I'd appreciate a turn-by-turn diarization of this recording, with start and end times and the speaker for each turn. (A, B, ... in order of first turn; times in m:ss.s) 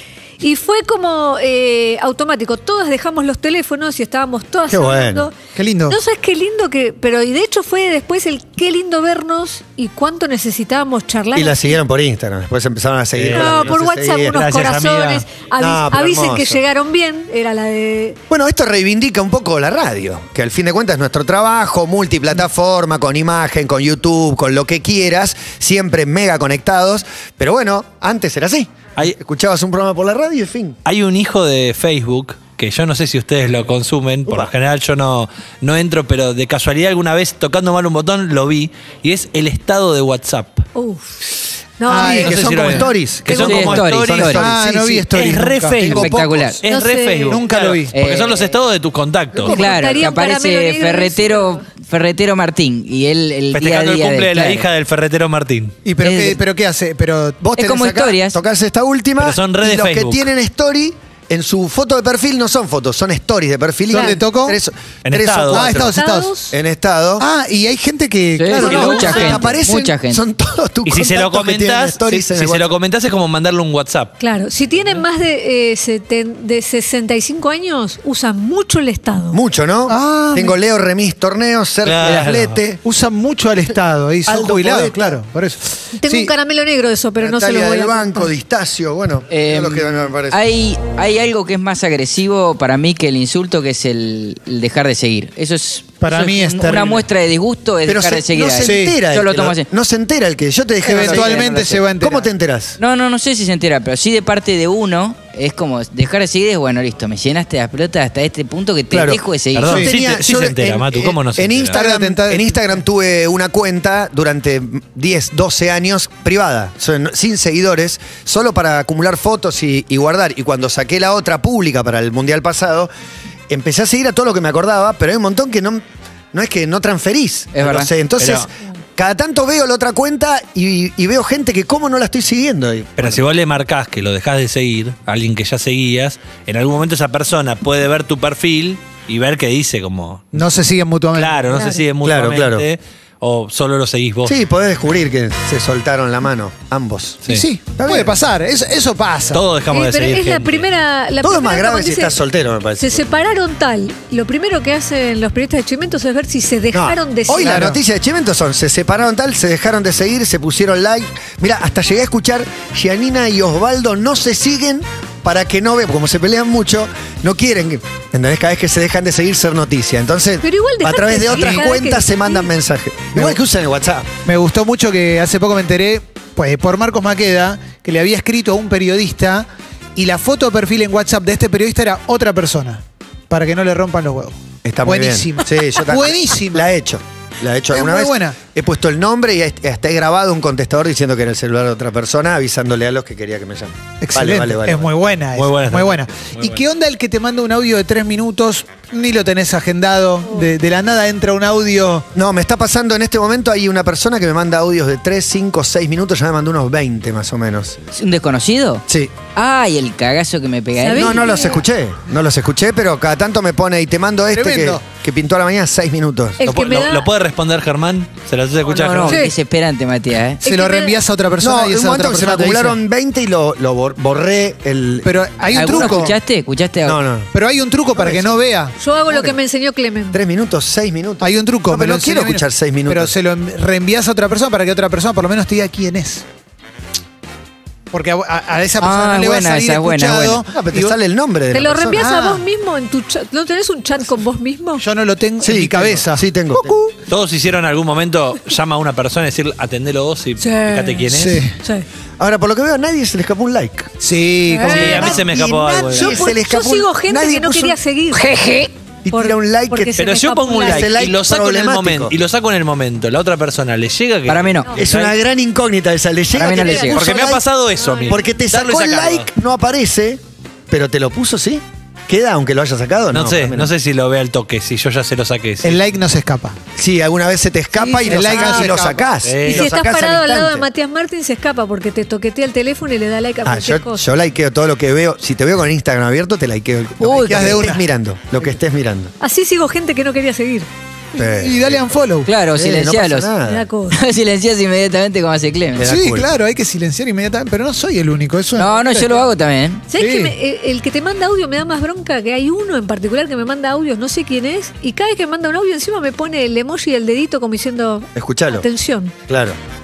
0:00.4-0:05.4 A
0:04.7-0:05.3 B
0:05.5-0:06.0 C
0:05.9-0:11.7 A
0:11.3-0:14.4 B
0:13.1-0:13.7 D
0:13.3-0:18.2 A
0:14.3-0:15.2 D
0:15.6-0:16.6 B
0:18.3-0:30.8 B
0:30.8-0:40.6 D
0:40.8-0:41.2 A
0:41.8-0:42.6 A
0:41.9-0:42.8 C
0:41.9-0:46.6 B
0:42.0-0:44.4 D
0:43.3-0:44.4 E
0:44.4-0:46.1 C
0:45.1-0:49.6 D
0:46.0-0:46.6 E
0:46.6-0:47.4 A
0:47.3-0:47.9 C
0:47.9-0:48.5 E
0:49.4-0:54.7 E
0:49.4-0:51.6 A
0:53.5-0:55.7 D
0:55.8-0:57.4 C
0:56.0-0:56.4 E
0:57.4-1:06.0 B
0:57.6-0:58.4 E
0:59.2-1:00.3 D
1:03.9-1:04.6 C
1:05.0-1:05.8 D
1:05.5-1:06.3 C
1:05.9-1:06.5 A
1:06.5-1:07.2 B
1:07.2-1:09.8 C
1:08.4-1:10.2 E
1:08.5-1:12.7 B
1:08.6-1:09.4 D
1:10.8-1:14.1 D
1:14.2-1:19.4 A
1:19.3-1:22.8 B
1:19.9-1:20.6 C
1:21.8-1:22.6 D
1:22.8-1:26.3 C
1:24.2-1:25.2 B
1:26.0-1:28.3 A
1:27.2-1:30.4 B
1:29.3-1:39.7 E
1:36.0-1:37.0 C
1:37.8-1:42.8 B
1:38.6-1:39.0 C
1:40.8-1:42.3 C
1:40.9-1:41.8 E
1:42.8-1:49.8 E
1:48.9-2:02.9 B
1:49.5-1:51.8 D
1:51.7-1:52.7 C
2:03.5-2:13.2 B
2:07.5-2:07.9 E
2:08.2-2:08.5 D
2:13.0-2:20.3 D
2:20.3-2:21.8 C
2:21.1-2:24.4 D
2:22.0-2:22.7 B
2:24.2-2:28.2 B
2:27.3-2:29.4 C
2:29.3-2:30.7 D
2:29.7-2:32.2 A
2:31.2-2:33.1 B
2:32.8-2:37.6 A
2:36.7-2:54.1 B
2:37.3-2:37.8 C
2:50.4-2:52.5 A
2:54.2-3:06.7 C
3:04.6-3:14.9 B
3:07.7-3:08.4 C
3:14.0-3:22.0 C
3:15.3-3:16.6 D
3:22.1-3:27.8 B
3:27.9-3:31.4 E
3:28.9-3:29.1 B
3:30.8-3:31.6 A
3:30.9-3:36.4 B
3:34.3-3:34.8 C
3:36.4-3:37.1 A
3:36.4-3:39.2 D
3:38.6-3:40.4 E
3:39.1-3:39.3 A
3:40.4-3:42.8 C
3:40.4-3:41.0 A
3:41.4-3:46.1 B
3:45.0-3:46.2 C
3:45.5-3:47.0 E
3:46.8-3:47.3 B
3:47.3-3:48.8 C
3:47.9-3:48.4 B
3:48.8-3:50.2 A
3:49.1-3:49.3 B
3:50.1-3:53.1 B
3:51.2-3:56.2 C
3:57.9-4:00.9 C
3:58.8-4:00.4 E
4:00.5-4:02.1 B
4:01.5-4:04.8 A
4:01.9-4:02.4 C
4:04.8-4:06.9 C
4:05.4-4:06.8 B
4:07.1-4:11.4 D
4:10.4-4:11.8 A
4:11.1-4:11.5 C
4:12.2-4:13.9 B
4:14.0-4:15.2 C
4:14.5-4:15.2 A
4:14.7-4:16.2 D
4:14.7-4:17.8 B
4:15.9-4:18.5 A
4:18.3-4:18.7 E
4:19.0-4:20.0 B
4:19.1-4:20.9 A
4:20.0-4:25.1 D
4:20.5-4:22.2 B
4:24.3-4:24.7 E
4:24.8-4:27.4 B
4:26.3-4:27.1 E
4:26.4-4:27.0 A
4:26.9-4:29.3 D
4:27.8-4:28.2 A
4:28.1-4:33.7 B
4:33.1-4:35.8 D
4:35.6-4:36.6 C
4:36.8-4:40.7 B
4:37.8-4:38.7 A
4:38.0-4:39.0 C
4:39.2-4:39.7 D
4:39.4-4:44.0 A
4:43.4-4:49.1 B
4:47.0-4:47.6 E
4:47.2-4:47.8 C
4:49.2-4:50.7 A
4:51.1-4:51.9 B
4:51.3-4:52.3 C
4:52.2-4:53.3 E
4:52.5-4:53.7 B
4:53.4-4:54.0 A
4:53.9-4:55.9 E
4:55.8-4:56.3 B
4:55.8-4:59.3 C
4:58.6-4:59.8 E
4:59.9-5:09.1 A
4:59.9-5:00.3 C
5:08.2-5:08.6 B
5:09.3-5:09.6 B